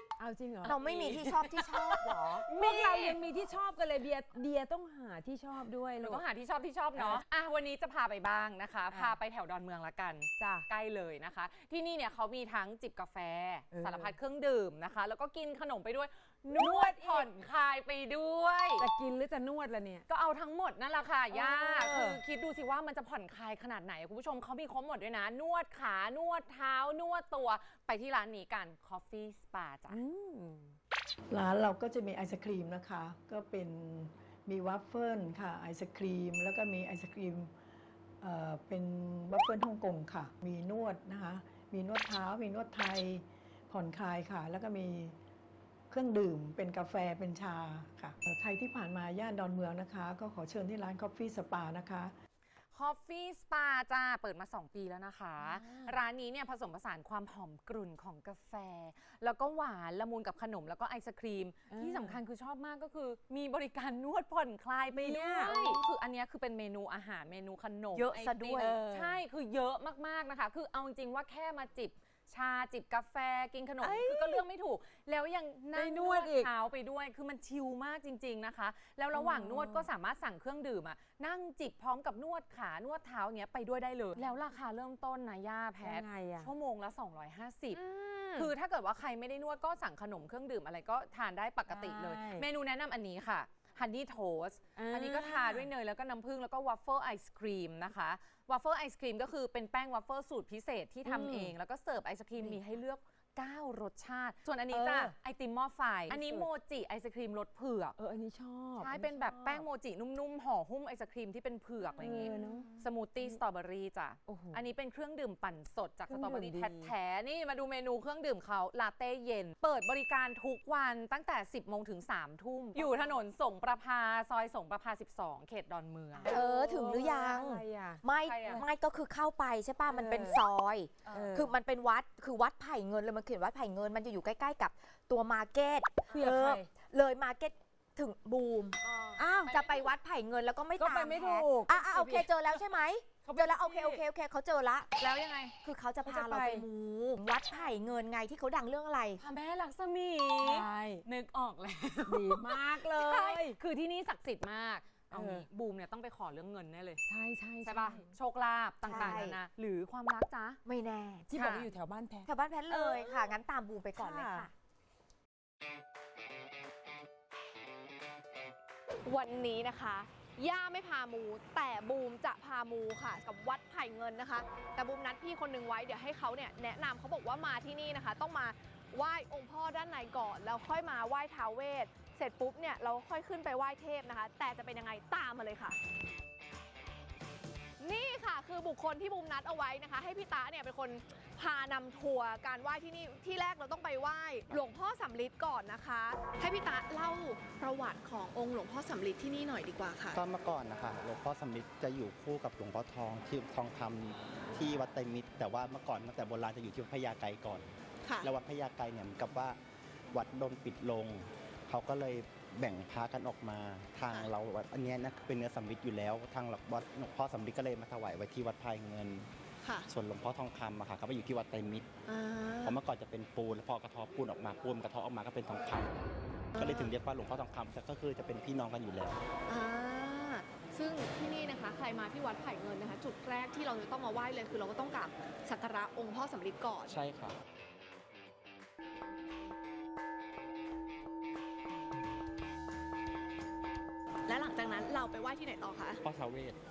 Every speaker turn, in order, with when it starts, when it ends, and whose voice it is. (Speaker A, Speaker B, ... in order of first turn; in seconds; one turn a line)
Speaker A: 0.2-0.7
Speaker B: 0.6-2.5
Speaker C: 0.6-3.2
Speaker A: 2.4-6.2
Speaker C: 6.0-18.9
Speaker A: 6.9-7.2
Speaker A: 8.9-9.2
Speaker A: 10.4-10.7
Speaker A: 13.7-14.1
Speaker A: 16.5-17.3
Speaker A: 18.8-20.1
Speaker C: 20.1-30.0
Speaker A: 21.3-22.2
Speaker A: 29.9-30.8
Speaker D: 31.3-37.5
Speaker D: 38.2-45.1
Speaker D: 45.9-52.1
Speaker C: 52.7-87.8
Speaker A: 55.4-56.0
Speaker A: 61.7-62.2
Speaker A: 64.9-65.5
Speaker B: 67.9-68.8
Speaker A: 68.6-69.2
Speaker A: 73.8-74.5
Speaker A: 75.7-76.5
Speaker A: 79.1-79.9
Speaker A: 85.8-86.5
Speaker E: 87.7-88.5
Speaker C: 88.3-107.9
Speaker A: 91.7-92.5
Speaker A: 94.8-95.7
Speaker A: 101.0-101.5
Speaker A: 102.4-102.6
Speaker A: 104.7-105.1
Speaker A: 106.1-106.5
Speaker A: 108.0-109.7
Speaker C: 108.8-126.3
Speaker A: 112.0-113.4
Speaker A: 114.2-114.7
Speaker A: 116.1-116.9
Speaker A: 122.7-123.1
Speaker A: 126.1-128.6
Speaker B: 126.3-138.8
Speaker C: 128.2-128.7
Speaker A: 129.9-130.4
Speaker A: 131.1-131.5
Speaker A: 136.1-136.7
Speaker C: 138.8-139.9
Speaker A: 139.2-139.6
Speaker B: 139.5-145.0
Speaker A: 140.8-142.3
Speaker A: 143.3-144.0
Speaker C: 145.0-145.5
Speaker B: 145.6-149.2
Speaker A: 146.1-146.7
Speaker C: 149.2-157.0
Speaker A: 150.4-151.0
Speaker A: 152.1-153.6
Speaker A: 155.1-155.4
Speaker A: 157.0-158.1
Speaker C: 157.6-160.6
Speaker B: 158.8-159.4
Speaker A: 158.9-159.3
Speaker B: 160.6-161.3
Speaker A: 161.3-163.3
Speaker C: 161.3-161.7
Speaker B: 162.2-164.5
Speaker A: 164.0-164.5
Speaker E: 169.1-185.8
Speaker E: 187.8-200.2
Speaker F: 200.1-207.7
Speaker F: 208.2-209.6
Speaker F: 210.1-219.3
Speaker F: 219.9-221.8
Speaker E: 222.1-222.7
Speaker F: 222.6-225.9
Speaker E: 226.6-226.9
Speaker F: 226.6-229.2
Speaker E: 229.5-237.0
Speaker F: 236.9-237.3
Speaker E: 244.3-246.0
Speaker F: 246.0-246.6